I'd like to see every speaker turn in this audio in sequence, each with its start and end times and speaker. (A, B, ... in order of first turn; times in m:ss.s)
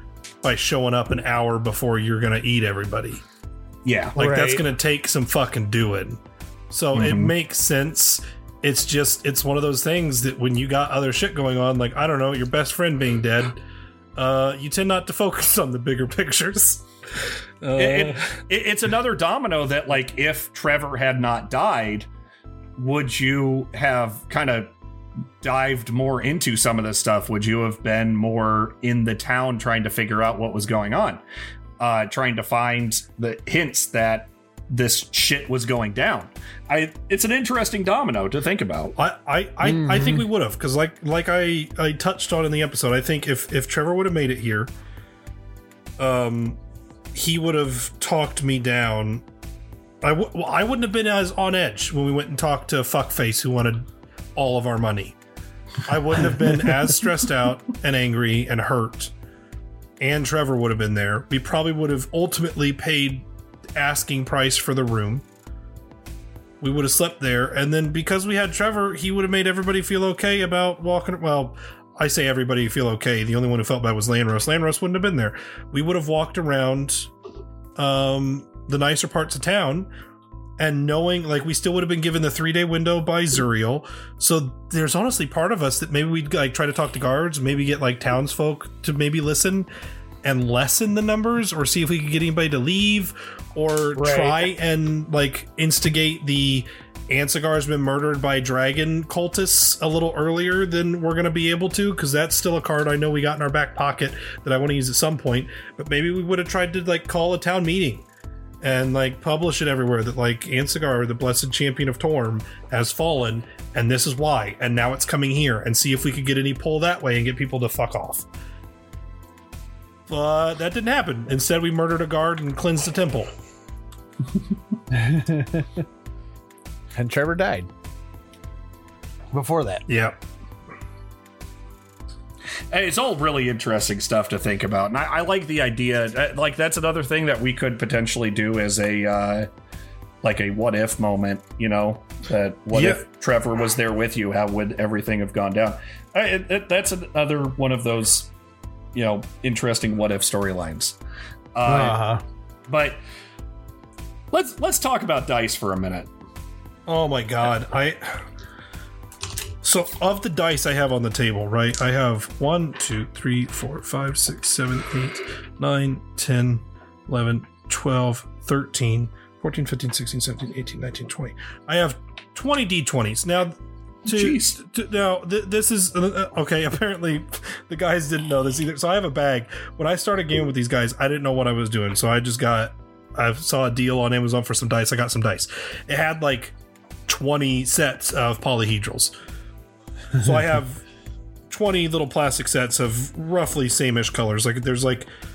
0:00.4-0:03.2 A
0:03.8-0:04.2 B
0:04.2-0:04.6 C
0:04.2-0:13.6 A
0:06.9-0:07.3 B
0:14.2-0:18.4 A
0:17.8-0:22.1 B
0:22.8-0:24.7 B
0:25.4-0:31.2 B
0:31.8-0:39.0 B
0:39.0-0:44.7 A
0:39.6-0:40.2 C
0:46.0-0:46.6 A
0:47.1-0:49.2 A
0:50.0-0:55.2 A
0:55.9-0:59.1 A
1:00.0-1:05.2 A
1:06.6-1:17.1 A
1:17.8-1:19.9 A
1:20.6-1:29.7 A
1:30.2-1:48.1 A
1:34.0-1:34.5 C
1:48.6-1:58.3 A
2:00.1-2:03.3 A
2:04.9-2:05.7 C
2:07.0-2:07.7 C
2:09.3-2:09.8 C
2:09.9-2:10.2 A
2:12.7-2:19.5 B
2:20.2-2:28.3 B
2:22.7-2:23.0 A
2:28.9-2:31.0 B
2:31.6-2:32.0 B
2:31.6-2:32.2 C
2:32.7-2:33.0 B
2:34.3-2:36.1 B
2:36.9-2:38.2 A
2:39.6-3:06.6 A
2:54.0-2:54.6 B
3:07.1-3:09.1 A
3:10.2-3:10.8 A
3:11.5-3:15.1 A